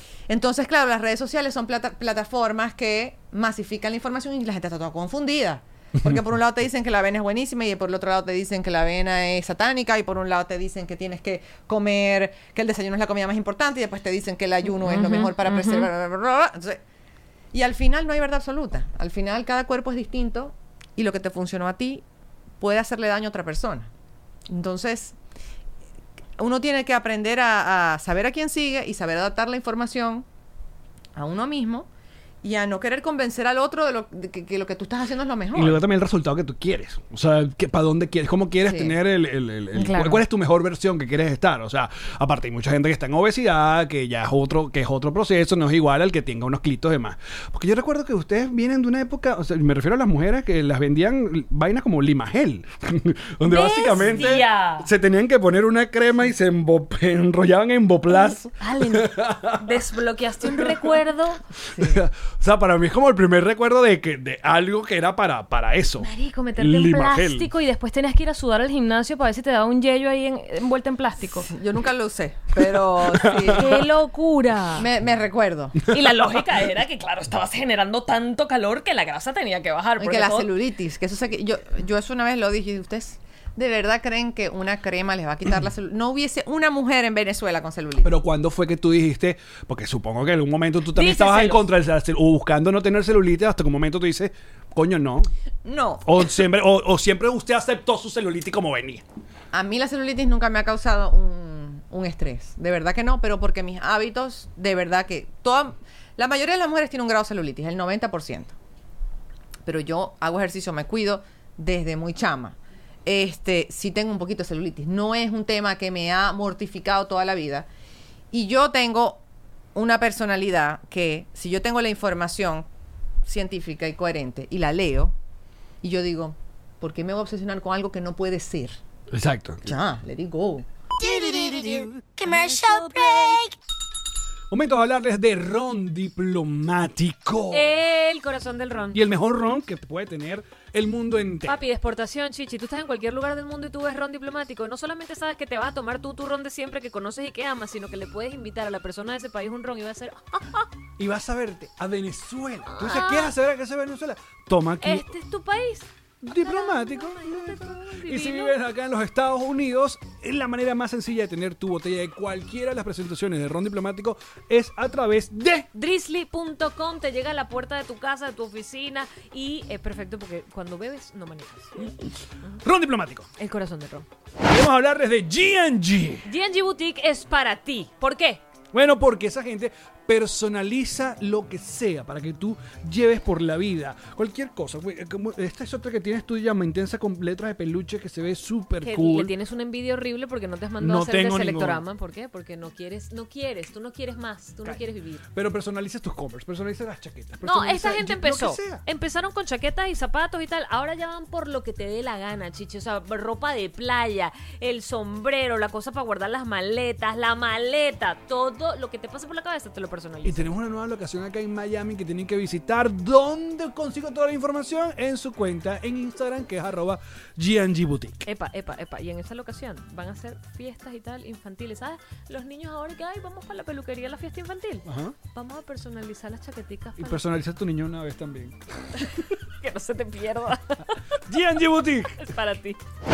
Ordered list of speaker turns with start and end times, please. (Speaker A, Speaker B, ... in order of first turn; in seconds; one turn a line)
Speaker A: 0.3-16.8
Speaker B: 14.8-15.9
Speaker A: 17.5-22.0
Speaker A: 22.6-23.9
Speaker A: 24.5-25.2
Speaker A: 26.4-30.2
Speaker A: 31.1-31.9
Speaker A: 32.4-35.8
Speaker C: 35.5-59.7
Speaker A: 38.6-38.9
Speaker B: 39.7-40.2
Speaker B: 53.4-54.9
Speaker B: 58.6-61.4
Speaker C: 60.5-60.7
Speaker A: 61.7-62.0
Speaker C: 61.8-67.5
Speaker B: 66.0-71.5
Speaker A: 71.3-73.9
Speaker C: 73.0-73.6
Speaker B: 73.5-74.9
Speaker A: 74.8-75.9
Speaker B: 75.9-80.5
Speaker A: 80.0-88.1
Speaker C: 88.0-95.3
Speaker B: 90.9-91.6
Speaker A: 95.6-96.2
Speaker C: 96.0-99.0
Speaker A: 99.5-108.5
Speaker A: 109.6-117.7
Speaker A: 118.3-119.2
Speaker A: 119.7-122.7
Speaker A: 123.2-125.1
Speaker A: 125.8-128.8
Speaker C: 129.1-129.8
Speaker A: 129.7-130.7
Speaker C: 131.0-133.4
Speaker B: 132.3-133.2
Speaker C: 134.5-137.7
Speaker B: 137.5-139.0
Speaker C: 138.9-141.6
Speaker B: 141.4-150.7
Speaker C: 151.0-155.1
Speaker B: 152.7-153.3
Speaker B: 154.8-158.5
Speaker C: 156.2-165.7
Speaker B: 165.7-172.0
Speaker C: 172.6-173.3
Speaker B: 173.4-174.1
Speaker C: 174.4-176.3
Speaker B: 176.3-178.4
Speaker C: 178.7-189.3
Speaker B: 188.8-195.2
Speaker C: 190.8-191.8
Speaker C: 195.3-198.8
Speaker B: 197.4-210.5
Speaker C: 210.2-218.2
Speaker B: 218.2-227.2
Speaker C: 224.8-225.2
Speaker C: 227.0-229.2
Speaker B: 229.0-231.2
Speaker C: 231.3-232.2
Speaker B: 232.2-232.8